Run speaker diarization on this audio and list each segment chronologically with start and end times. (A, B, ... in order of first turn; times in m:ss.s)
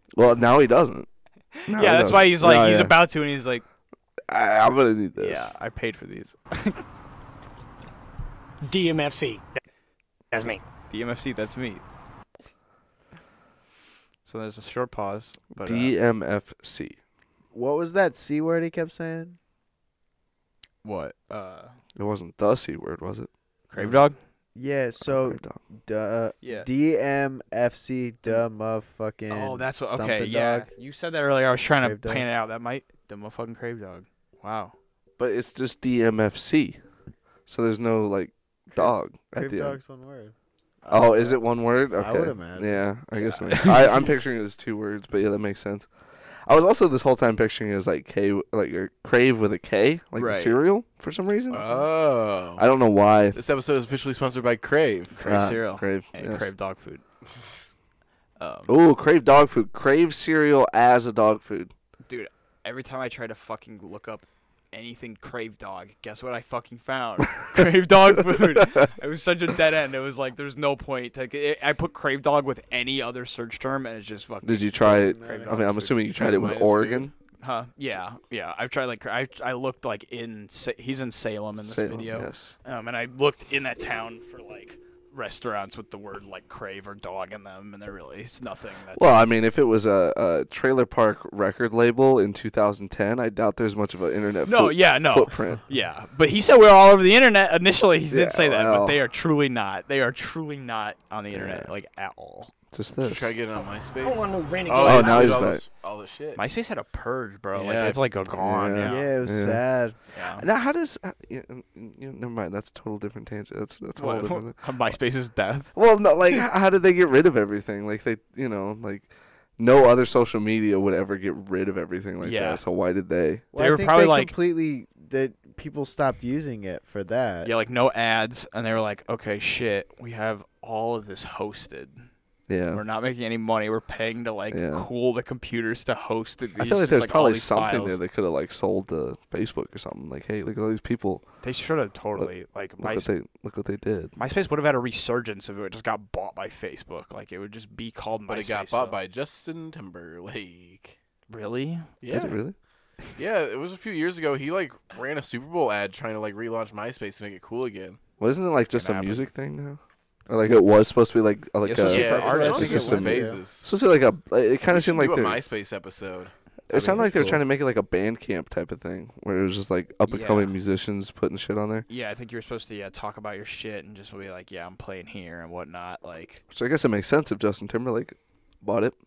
0:00.2-0:01.1 A
0:01.6-0:03.6 B
0:01.7-0:03.0 A
0:04.3-0:05.5 A
0:05.2-0:06.8 B
0:08.7-0:09.4 C
0:10.3-0:10.6 C
0:10.9-0:11.8 B
0:14.2-0:16.0 B
0:15.6-0:17.0 A
0:17.5-0:19.4 D
0:20.8-0:21.8 B
0:22.0-0:24.0 A
0:23.7-0:24.2 B
0:24.6-0:30.7 D
0:25.0-0:25.6 A
0:26.4-0:26.7 B
0:29.3-0:34.8 B
0:31.8-0:32.3 D
0:35.2-0:36.8 A
0:37.5-0:39.8 A
0:38.8-0:42.9 D
0:40.9-0:45.9 A
0:43.1-0:44.1 B
0:46.5-0:51.8 A
0:50.2-0:50.6 B
0:51.5-0:52.7 E
0:52.6-0:53.4 A
0:53.3-0:55.3 E
0:55.1-0:57.0 B
0:55.2-0:56.5 A
0:57.3-0:57.7 E
0:58.4-0:58.8 B
0:58.7-1:01.7 A
1:02.1-1:16.0 B
1:07.6-1:08.9 A
1:14.4-1:17.1 A
1:14.8-1:15.8 D
1:16.2-1:17.1 E
1:17.4-1:29.3 B
1:21.6-1:22.5 A
1:29.0-1:35.6 A
1:34.4-1:42.5 B
1:38.1-1:39.0 A
1:41.3-1:41.7 A
1:42.7-1:43.3 A
1:43.0-1:46.4 E
1:44.0-1:45.4 C
1:44.8-1:45.6 A
1:46.4-1:49.1 B
1:47.5-1:48.1 E
1:48.3-1:49.6 A
1:48.8-1:50.0 D
1:50.1-1:50.5 B
1:50.3-1:54.6 A
1:54.0-1:55.8 B
1:55.8-2:03.4 A
2:02.2-2:02.6 B
2:03.5-2:07.5 D
2:03.6-2:04.3 B
2:07.4-2:12.1 B
2:12.5-2:12.8 A
2:12.7-2:18.0 B
2:14.5-2:14.9 A
2:16.6-2:21.2 A
2:21.4-2:23.1 B
2:22.2-2:24.1 A
2:24.2-2:29.0 B
2:28.3-2:31.0 E
2:31.3-2:31.9 B
2:32.0-2:32.4 E
2:32.1-2:32.6 A
2:33.2-2:38.0 E
2:38.2-2:45.4 A
2:38.7-2:39.3 B
2:41.6-2:43.2 B
2:41.8-2:43.7 E
2:42.4-2:43.4 D
2:44.7-2:46.3 E
2:46.7-2:51.8 A
2:50.1-2:50.6 B
2:51.9-2:56.4 B
2:56.5-2:59.0 A